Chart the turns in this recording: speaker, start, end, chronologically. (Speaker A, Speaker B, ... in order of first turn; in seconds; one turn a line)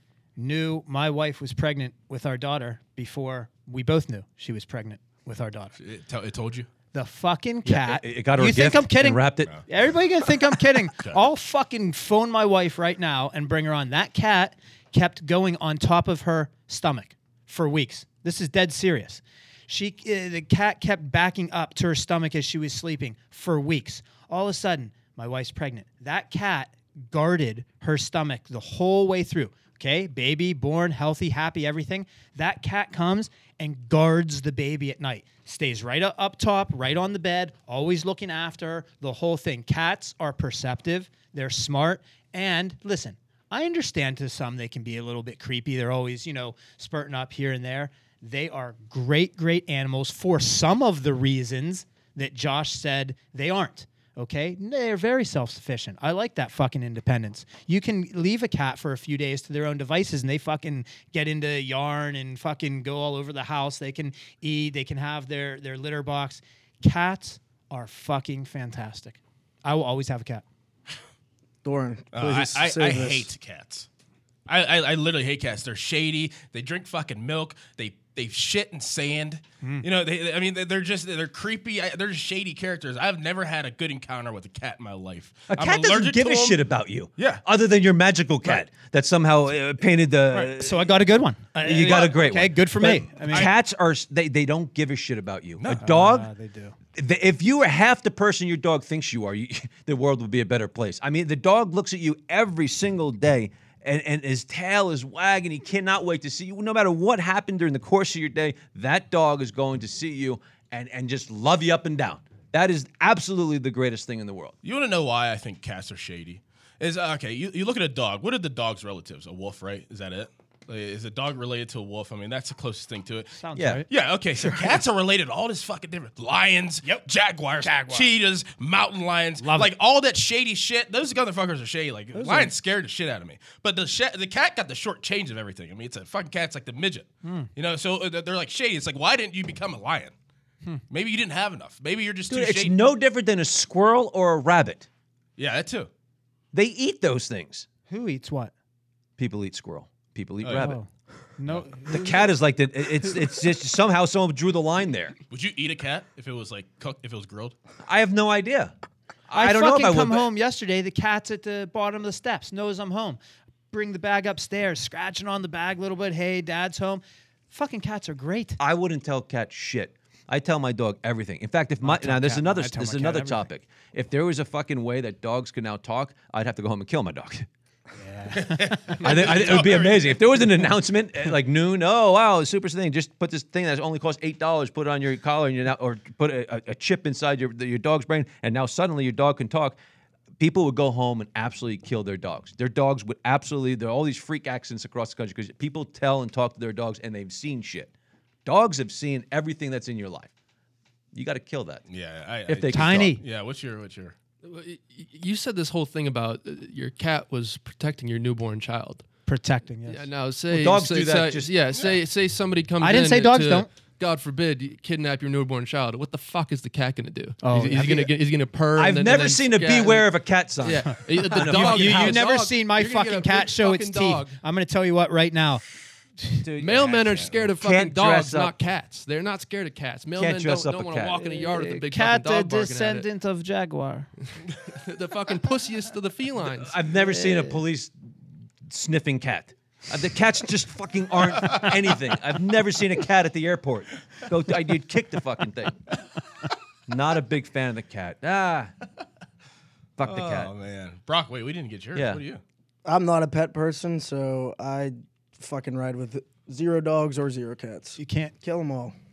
Speaker A: 0.4-5.8
Speaker B: 5.8-6.7
Speaker A: 6.9-70.5
Speaker C: 7.7-9.5
Speaker D: 71.6-73.3
Speaker B: 72.1-73.9
Speaker B: 74.5-86.6
Speaker C: 85.5-90.9
Speaker B: 87.2-87.5
Speaker A: 90.3-93.5
Speaker C: 91.6-96.3
Speaker B: 91.7-92.4
Speaker B: 93.1-93.5
Speaker B: 95.6-95.9
Speaker A: 95.8-96.8
Speaker C: 97.0-114.5
Speaker B: 114.6-140.1
Speaker A: 123.4-123.9
Speaker C: 123.6-123.8
Speaker C: 124.4-124.8
Speaker A: 127.6-128.1
Speaker A: 129.4-129.7
Speaker D: 132.2-132.5
Speaker A: 137.2-137.5
Speaker B: 140.9-142.8
Speaker C: 142.3-144.9
Speaker B: 145.4-145.9
Speaker C: 146.5-147.7
Speaker A: 147.9-148.5
Speaker C: 149.2-150.8
Speaker B: 150.4-150.8
Speaker A: 150.6-152.2
Speaker C: 151.9-155.2
Speaker B: 155.3-157.6
Speaker C: 157.9-158.7
Speaker C: 159.3-160.3
Speaker A: 159.3-163.2
Speaker A: 163.7-168.6
Speaker C: 168.6-177.5
Speaker A: 171.8-173.5
Speaker A: 178.0-179.2
Speaker B: 178.3-180.4
Speaker C: 179.0-189.8
Speaker C: 190.4-197.9
Speaker C: 198.4-200.3
Speaker C: 201.1-201.9
Speaker B: 201.9-204.2
Speaker C: 202.5-203.1
Speaker A: 202.7-203.2
Speaker E: 204.4-209.1
Speaker A: 209.3-210.1
Speaker E: 209.9-224.4
Speaker C: 210.5-211.5
Speaker A: 212.8-213.7
Speaker A: 217.4-218.1
Speaker C: 217.8-218.1
Speaker C: 218.8-222.4
Speaker A: 220.9-225.6
Speaker C: 226.4-228.5
Speaker E: 226.6-233.1
Speaker C: 230.2-231.3
Speaker A: 231.2-234.1
Speaker E: 234.3-236.8
Speaker C: 236.5-237.9
Speaker A: 237.0-237.6
Speaker C: 238.7-245.8
Speaker C: 246.9-248.7
Speaker C: 250.0-250.5
Speaker B: 250.0-252.4
Speaker C: 251.9-252.2
Speaker D: 252.9-258.9
Speaker A: 258.0-258.4